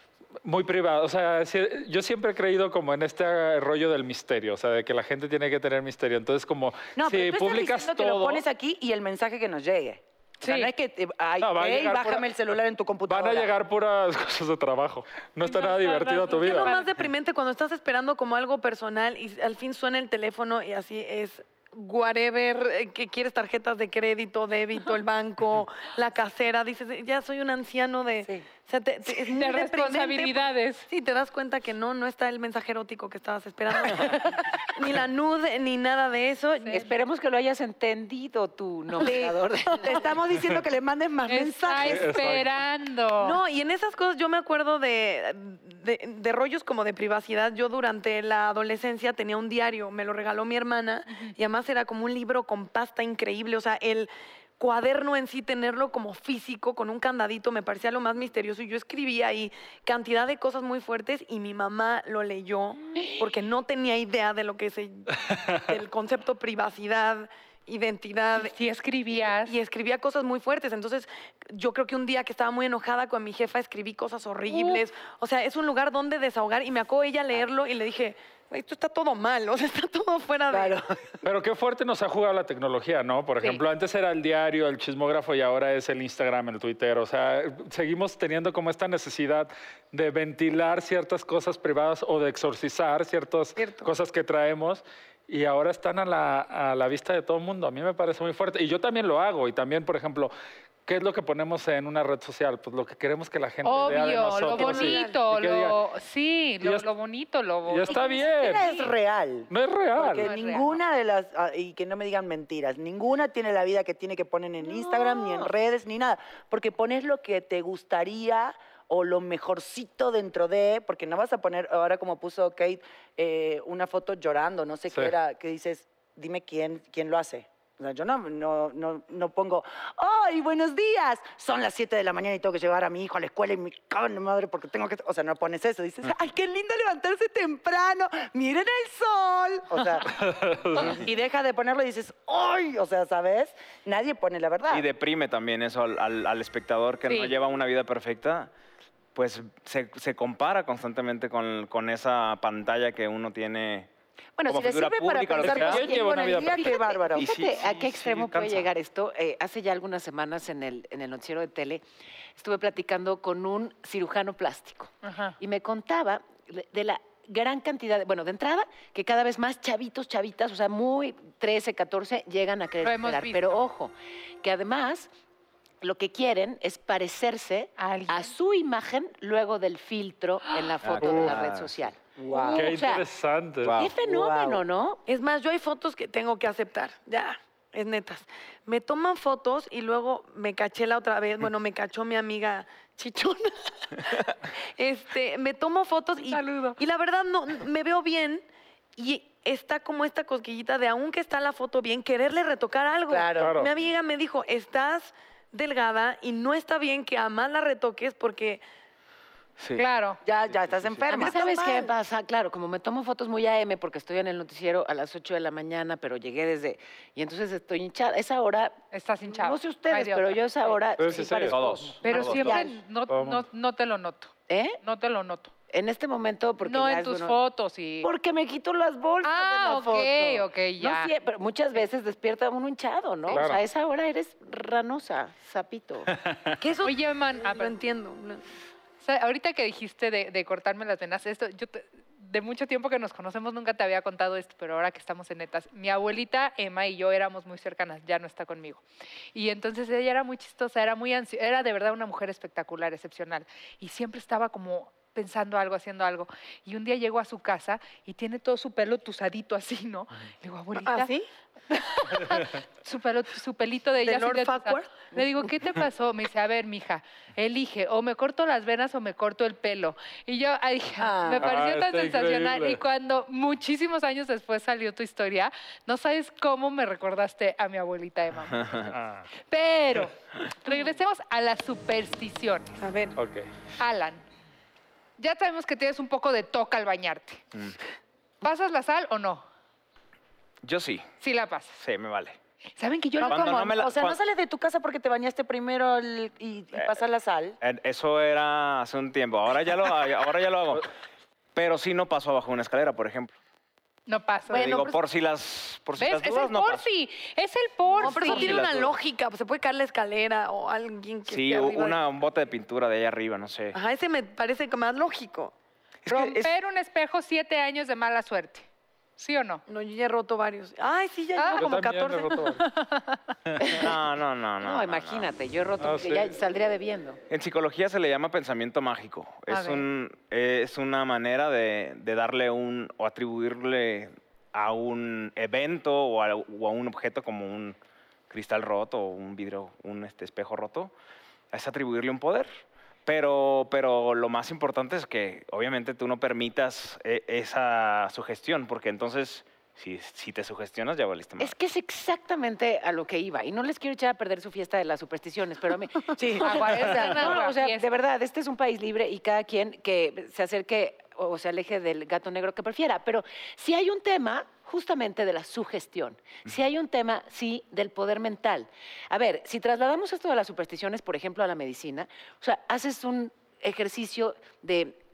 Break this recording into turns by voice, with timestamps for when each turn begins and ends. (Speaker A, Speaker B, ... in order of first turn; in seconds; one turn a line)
Speaker A: 0.4-8.4
Speaker B: 7.0-13.5
Speaker C: 10.4-10.7
Speaker A: 11.4-12.3
Speaker A: 13.1-16.8
Speaker C: 15.4-16.9
Speaker D: 16.4-36.9
Speaker C: 29.2-30.9
Speaker E: 36.7-40.1
Speaker D: 39.0-40.1
Speaker B: 39.8-42.3
Speaker C: 41.3-43.4
Speaker A: 41.8-42.6
Speaker D: 43.2-68.5
Speaker A: 65.3-65.7
Speaker C: 68.4-69.5
Speaker D: 69.2-80.8
Speaker C: 74.5-74.8
Speaker B: 80.5-80.8
Speaker A: 81.2-100.3
Speaker D: 93.6-93.9
Speaker A: 100.9-105.8
Speaker C: 103.6-108.7
Speaker D: 103.8-105.2
Speaker A: 106.6-106.9
Speaker A: 107.7-108.8
Speaker B: 107.9-140.1
Speaker A: 109.5-110.3
Speaker C: 110.2-110.7
Speaker E: 114.6-115.5
Speaker A: 140.0-141.0
Speaker B: 140.8-144.9
Speaker F: 144.7-148.5
Speaker C: 147.1-147.3
Speaker F: 149.2-153.9
Speaker B: 154.4-157.3
Speaker F: 154.5-155.9
Speaker A: 155.4-156.9
Speaker E: 156.2-161.8
Speaker F: 157.1-158.7
Speaker E: 162.4-175.1
Speaker C: 165.0-165.4
Speaker C: 172.8-173.6
Speaker E: 175.8-183.1
Speaker C: 177.8-178.3
Speaker F: 180.8-181.8
Speaker A: 181.0-181.4
Speaker B: 182.2-182.8
Speaker A: 182.5-183.8
Speaker F: 183.6-183.9
Speaker E: 183.8-185.0
Speaker B: 184.0-184.6
Speaker D: 185.1-198.4
Speaker C: 196.3-196.8
Speaker D: 199.0-208.6
Speaker B: 203.1-203.7
Speaker A: 203.4-203.7
Speaker F: 209.6-209.8
Speaker C: 209.8-210.2
Speaker B: 210.2-211.9
Speaker F: 210.6-211.0
Speaker E: 211.1-222.7
Speaker C: 218.9-220.8
Speaker A: 221.0-222.5
Speaker F: 221.5-222.7
Speaker C: 222.0-225.5
Speaker A: 223.1-223.4
Speaker E: 224.5-224.8
Speaker E: 225.7-227.4
Speaker C: 226.6-228.1
Speaker E: 228.0-236.1
Speaker C: 229.2-231.1
Speaker A: 233.3-233.6
Speaker A: 236.2-236.6
Speaker D: 236.6-238.4
Speaker C: 236.8-237.8
Speaker C: 239.0-248.8
Speaker C: 249.3-261.1
Speaker D: 260.8-261.3
Speaker C: 261.7-278.7
Speaker D: 264.0-265.1
Speaker B: 271.0-271.5
Speaker A: 271.4-272.8
Speaker F: 278.6-278.9
Speaker A: 278.9-279.3
Speaker C: 279.5-282.8
Speaker D: 282.8-283.2
Speaker A: 283.2-283.5
Speaker C: 283.8-284.2
Speaker C: 285.2-287.4
Speaker C: 288.4-289.4
Speaker F: 290.6-291.1
Speaker C: 291.2-291.8
Speaker F: 291.8-292.4
Speaker C: 292.8-293.7
Speaker B: 293.2-297.6
Speaker F: 293.2-294.2
Speaker F: 297.6-300.9
Speaker F: 301.6-303.3
Speaker C: 304.1-305.0
Speaker F: 304.5-306.9
Speaker C: 306.0-308.6
Speaker D: 308.0-312.0
Speaker F: 308.0-309.0
Speaker F: 311.3-313.8
Speaker D: 313.7-315.5
Speaker F: 316.1-316.5
Speaker C: 316.1-319.6
Speaker D: 319.7-322.6
Speaker C: 321.4-321.7
Speaker A: 321.6-322.6
Speaker C: 322.6-323.3
Speaker A: 323.5-323.8
Speaker E: 323.6-323.9
Speaker F: 323.7-325.3
Speaker E: 324.6-327.2
Speaker A: 325.8-326.3
Speaker F: 327.3-337.8
Speaker C: 329.5-329.9
Speaker F: 338.3-340.9
Speaker F: 341.5-342.5
Speaker F: 343.1-351.6
Speaker E: 351.4-375.0
Speaker B: 356.2-357.4
Speaker C: 356.4-357.9